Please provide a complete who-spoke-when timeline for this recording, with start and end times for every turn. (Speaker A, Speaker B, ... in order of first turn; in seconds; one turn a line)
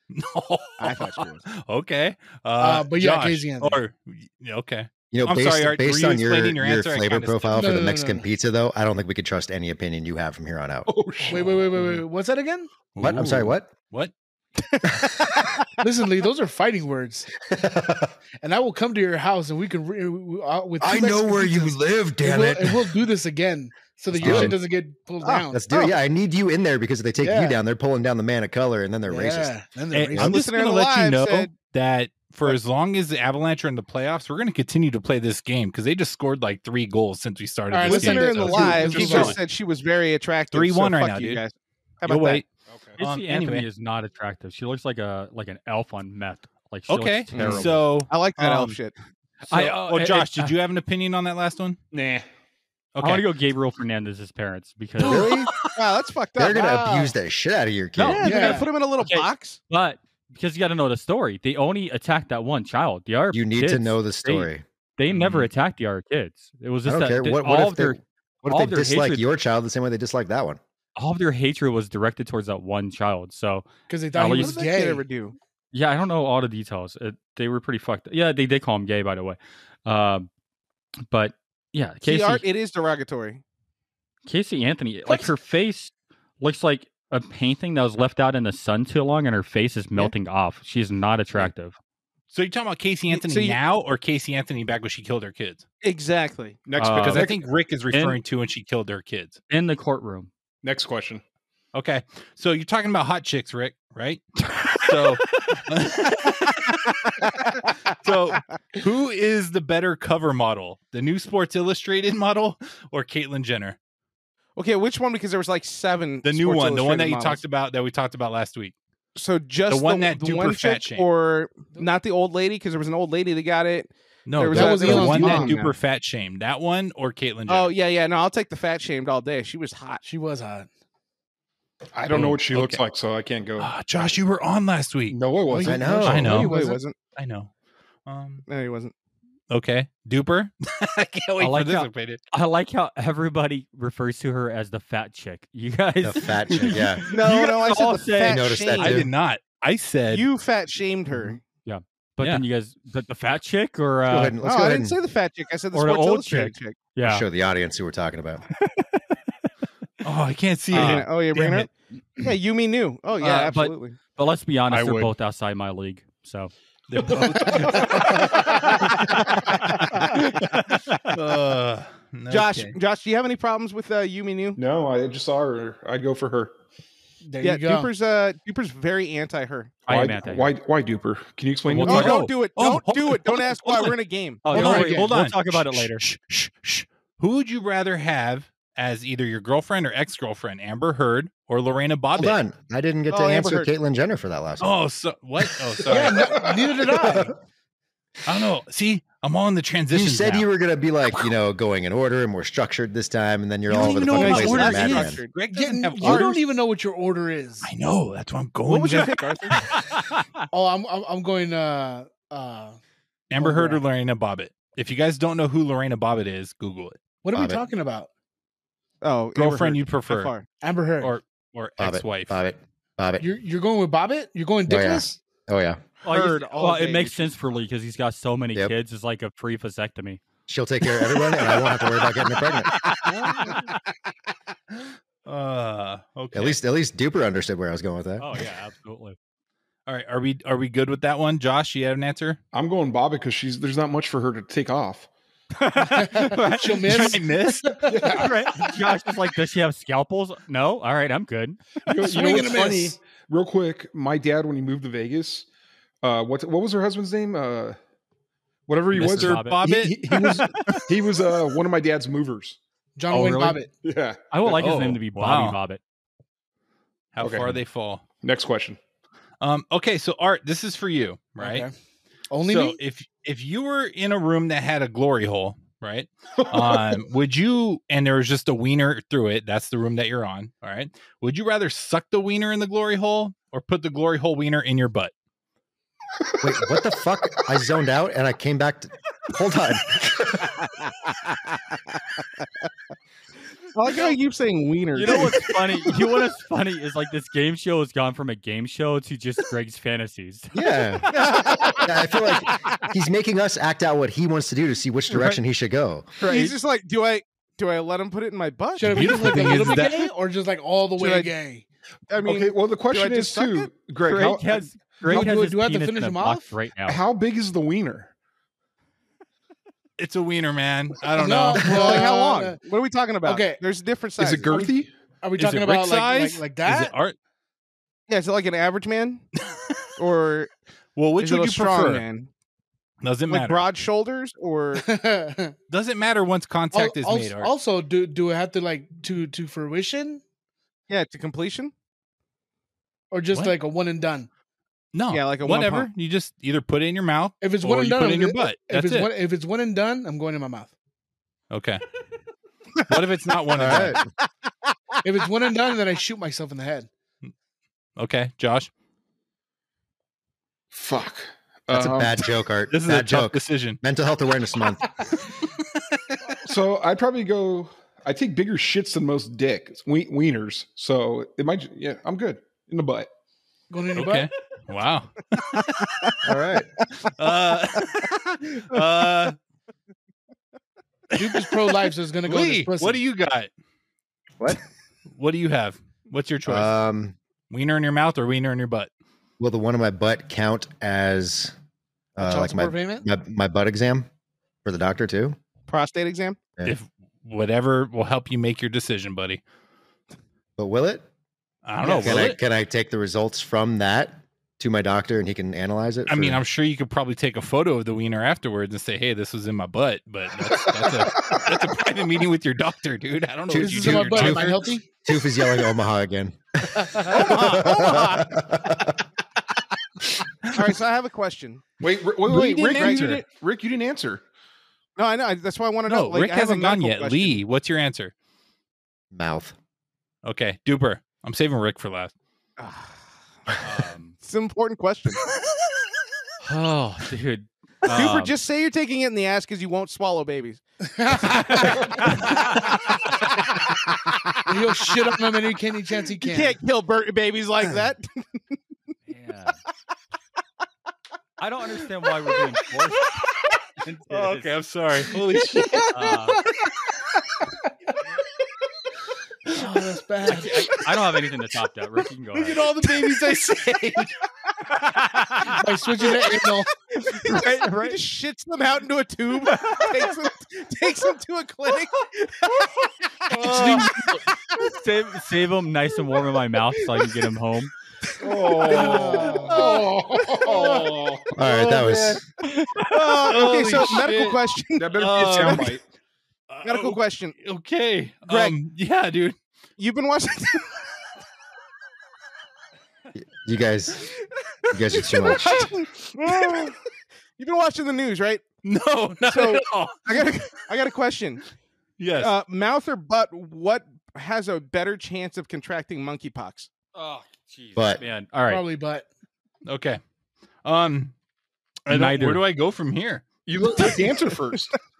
Speaker A: 0.1-7.7
Speaker B: 0.8-1.4
Speaker C: 2.6-3.8
Speaker D: 5.1-10.9
Speaker C: 7.5-8.3
Speaker E: 10.8-12.0
Speaker C: 11.2-12.7
Speaker A: 12.9-14.1
Speaker D: 13.0-13.7
Speaker B: 14.6-15.7
Speaker C: 15.8-17.3
Speaker D: 17.4-18.1
Speaker C: 18.4-25.9
Speaker D: 20.8-23.0
Speaker A: 24.2-24.5
Speaker D: 24.2-24.6
Speaker D: 25.2-29.5
Speaker C: 27.2-27.6
Speaker C: 29.1-30.4
Speaker A: 29.9-39.4
Speaker B: 30.2-31.5
Speaker C: 37.7-39.4
Speaker B: 37.8-42.4
Speaker A: 40.5-41.4
Speaker A: 42.0-42.5
Speaker E: 42.7-43.0
Speaker F: 43.0-47.8
Speaker A: 43.0-43.7
Speaker A: 46.9-48.8
Speaker B: 47.3-48.9
Speaker F: 49.4-50.5
Speaker A: 49.5-51.8
Speaker E: 51.9-52.2
Speaker A: 52.9-53.3
Speaker F: 53.0-55.3
Speaker D: 55.0-55.5
Speaker B: 55.1-57.1
Speaker D: 56.4-58.5
Speaker F: 58.0-58.3
Speaker B: 58.0-59.6
Speaker C: 58.2-58.7
Speaker F: 59.0-69.2
Speaker D: 63.3-64.6
Speaker A: 65.1-65.5
Speaker D: 66.8-70.6
Speaker F: 71.0-74.5
Speaker C: 73.9-75.0
Speaker B: 74.3-75.3
Speaker F: 75.7-80.3
Speaker F: 81.1-82.4
Speaker B: 82.0-83.4
Speaker F: 84.2-91.8
Speaker A: 92.3-95.6
Speaker B: 93.1-93.6
Speaker B: 95.8-96.6
Speaker E: 96.6-97.4
Speaker F: 96.8-97.3
Speaker A: 96.9-99.4
Speaker F: 97.9-98.2
Speaker F: 99.5-100.3
Speaker E: 100.6-101.2
Speaker A: 101.7-106.7
Speaker A: 108.0-113.8
Speaker B: 114.5-117.4
Speaker A: 116.2-118.7
Speaker B: 119.2-125.7
Speaker A: 119.7-121.1
Speaker A: 124.2-127.7
Speaker C: 124.5-125.7
Speaker B: 127.5-130.0
Speaker C: 130.0-130.7
Speaker E: 131.9-133.7
Speaker A: 132.1-132.8
Speaker A: 133.6-135.2
Speaker E: 135.1-136.1
Speaker C: 135.5-136.8
Speaker D: 135.6-136.4
Speaker A: 136.0-136.6
Speaker B: 136.4-136.9
Speaker A: 137.2-137.5
Speaker A: 138.1-138.4
Speaker B: 138.5-138.9
Speaker A: 139.5-142.2
Speaker F: 141.4-148.6
Speaker D: 146.0-147.0
Speaker B: 147.1-149.1
Speaker D: 148.2-149.1
Speaker A: 148.8-150.2
Speaker B: 150.1-151.4
Speaker F: 151.6-154.3
Speaker D: 154.1-155.0
Speaker B: 154.4-156.8
Speaker F: 155.7-157.2
Speaker D: 157.0-158.4
Speaker A: 160.0-161.7
Speaker F: 160.7-161.0
Speaker B: 160.7-164.0
Speaker A: 163.2-163.5
Speaker F: 163.2-166.5
Speaker E: 164.7-165.1
Speaker A: 166.9-169.1
Speaker E: 167.0-168.6
Speaker C: 168.3-168.7
Speaker A: 171.1-172.8
Speaker B: 172.3-174.6
Speaker E: 174.6-176.5
Speaker C: 177.2-177.9
Speaker B: 177.4-179.8
Speaker F: 179.9-180.5
Speaker E: 179.9-182.1
Speaker F: 181.7-182.2
Speaker A: 181.8-192.4
Speaker B: 181.8-184.6
Speaker F: 184.4-186.0
Speaker C: 184.5-185.1
Speaker D: 192.2-194.7
Speaker B: 193.1-193.7
Speaker A: 194.6-196.4
Speaker C: 195.9-197.3
Speaker A: 198.2-200.5
Speaker D: 199.9-205.2
Speaker A: 203.8-206.4
Speaker C: 203.8-204.5
Speaker B: 204.1-205.4
Speaker C: 205.5-207.7
Speaker A: 207.6-209.2
Speaker B: 208.7-209.7
Speaker F: 209.7-210.4
Speaker C: 210.5-212.8
Speaker A: 213.3-217.0
Speaker C: 213.4-213.8
Speaker C: 217.2-218.1
Speaker D: 217.3-217.6
Speaker B: 219.0-220.5
Speaker A: 219.3-220.3
Speaker C: 220.6-221.1
Speaker A: 221.0-222.4
Speaker D: 221.8-223.3
Speaker C: 223.2-225.1
Speaker D: 224.7-225.8
Speaker F: 226.0-230.2
Speaker B: 226.1-227.3
Speaker D: 230.5-232.7
Speaker B: 232.9-233.5
Speaker F: 233.0-233.7
Speaker A: 235.2-236.6
Speaker D: 236.3-238.3
Speaker F: 238.2-239.2
Speaker A: 239.9-242.4
Speaker E: 242.5-245.1
Speaker F: 245.6-247.1
Speaker C: 245.9-248.1
Speaker A: 246.8-247.8
Speaker E: 247.8-248.3
Speaker F: 248.1-251.6
Speaker E: 251.9-255.4
Speaker C: 252.0-253.0
Speaker E: 256.0-257.8
Speaker E: 258.7-262.6
Speaker F: 258.9-259.6
Speaker A: 259.0-260.0
Speaker F: 260.1-260.8
Speaker C: 262.9-263.7
Speaker E: 263.1-264.5
Speaker F: 264.3-265.8
Speaker A: 264.5-265.6
Speaker A: 267.1-268.0
Speaker E: 267.2-267.6
Speaker E: 268.2-268.8
Speaker A: 269.4-271.6
Speaker C: 271.4-271.7
Speaker C: 272.3-272.8
Speaker A: 272.4-285.1
Speaker E: 276.4-277.0
Speaker D: 286.4-290.5
Speaker B: 290.6-291.5
Speaker B: 293.7-295.8
Speaker F: 294.9-300.5
Speaker D: 300.5-301.2
Speaker B: 301.1-302.8
Speaker D: 301.8-306.1
Speaker F: 305.1-305.4
Speaker F: 306.2-306.5
Speaker B: 306.2-309.8
Speaker C: 308.8-311.6
Speaker A: 308.8-310.1
Speaker B: 311.0-311.3
Speaker B: 312.1-313.7
Speaker E: 312.2-315.2
Speaker F: 314.0-317.0
Speaker C: 315.0-316.5
Speaker E: 316.9-318.1
Speaker A: 320.0-322.0
Speaker C: 321.1-322.6
Speaker B: 321.6-324.5
Speaker C: 323.2-323.6
Speaker E: 324.2-324.9
Speaker C: 324.5-326.9
Speaker A: 325.4-327.1
Speaker B: 328.1-329.2
Speaker A: 329.5-329.8
Speaker B: 330.0-330.5
Speaker A: 330.9-332.0
Speaker B: 331.2-332.3
Speaker A: 333.0-333.6
Speaker B: 333.3-334.8
Speaker C: 334.8-335.5
Speaker A: 335.7-337.5
Speaker C: 336.7-340.2
Speaker B: 340.9-341.7
Speaker C: 343.1-344.3
Speaker A: 344.9-349.1
Speaker B: 345.1-345.9
Speaker C: 347.4-350.7
Speaker A: 351.5-351.8
Speaker A: 352.9-354.0
Speaker D: 353.5-354.1
Speaker C: 355.0-356.9
Speaker A: 358.0-358.7
Speaker E: 360.7-362.2
Speaker D: 361.7-365.0
Speaker A: 362.7-363.8
Speaker E: 366.4-373.1
Speaker C: 373.7-374.3
Speaker A: 373.9-375.6
Speaker B: 375.6-376.1
Speaker D: 376.2-376.7
Speaker A: 377.1-379.4
Speaker A: 381.1-383.5
Speaker C: 381.2-383.0
Speaker A: 385.2-386.7
Speaker D: 386.4-387.1
Speaker A: 387.5-388.9
Speaker D: 389.4-391.5
Speaker D: 392.1-394.1
Speaker C: 392.2-393.1
Speaker D: 394.6-395.4
Speaker B: 395.7-396.4
Speaker A: 396.6-399.4
Speaker D: 400.6-401.1
Speaker A: 401.6-402.4
Speaker C: 401.8-402.2
Speaker D: 402.0-406.4
Speaker A: 406.1-414.7
Speaker E: 411.2-411.4
Speaker C: 413.5-414.9
Speaker D: 413.5-418.9
Speaker B: 417.1-418.4
Speaker B: 420.5-421.6
Speaker E: 421.8-424.2
Speaker A: 422.2-423.2
Speaker B: 422.7-423.2
Speaker B: 424.9-427.4
Speaker A: 425.9-428.1
Speaker D: 429.1-429.5
Speaker A: 430.2-432.1
Speaker B: 432.6-433.0
Speaker F: 433.6-434.1
Speaker B: 434.2-435.2
Speaker F: 436.4-438.3
Speaker B: 437.9-440.6
Speaker C: 440.9-441.9
Speaker B: 441.2-443.2
Speaker B: 443.9-444.9
Speaker C: 444.4-446.6
Speaker B: 446.2-448.1
Speaker F: 449.1-449.6
Speaker F: 451.4-453.1
Speaker F: 453.8-454.5
Speaker A: 454.1-456.1
Speaker F: 455.9-456.4
Speaker C: 459.5-460.6
Speaker F: 460.3-462.6
Speaker A: 462.3-464.1
Speaker F: 464.9-465.6
Speaker C: 465.5-466.7
Speaker B: 467.0-472.7
Speaker F: 467.2-468.0
Speaker F: 469.5-469.9
Speaker A: 473.3-474.1
Speaker C: 473.4-474.0
Speaker F: 474.6-477.7
Speaker E: 478.2-482.2
Speaker C: 478.7-479.8
Speaker B: 479.5-479.9
Speaker B: 480.4-480.7
Speaker D: 481.3-482.2
Speaker B: 482.8-485.7
Speaker A: 482.8-484.4
Speaker E: 484.8-485.8
Speaker A: 484.9-485.7
Speaker A: 486.5-489.4
Speaker B: 486.6-487.4
Speaker B: 488.3-488.6
Speaker B: 489.8-490.8
Speaker D: 493.1-494.1
Speaker D: 494.7-495.7
Speaker B: 495.0-496.8
Speaker B: 497.4-498.4
Speaker A: 498.6-500.4
Speaker B: 499.2-501.4
Speaker A: 502.0-502.3
Speaker B: 502.2-506.7
Speaker F: 506.9-508.6
Speaker D: 507.8-508.0
Speaker C: 508.5-509.1
Speaker A: 509.6-510.0
Speaker A: 510.6-511.1
Speaker A: 511.9-513.3
Speaker F: 511.9-512.4
Speaker E: 513.4-514.8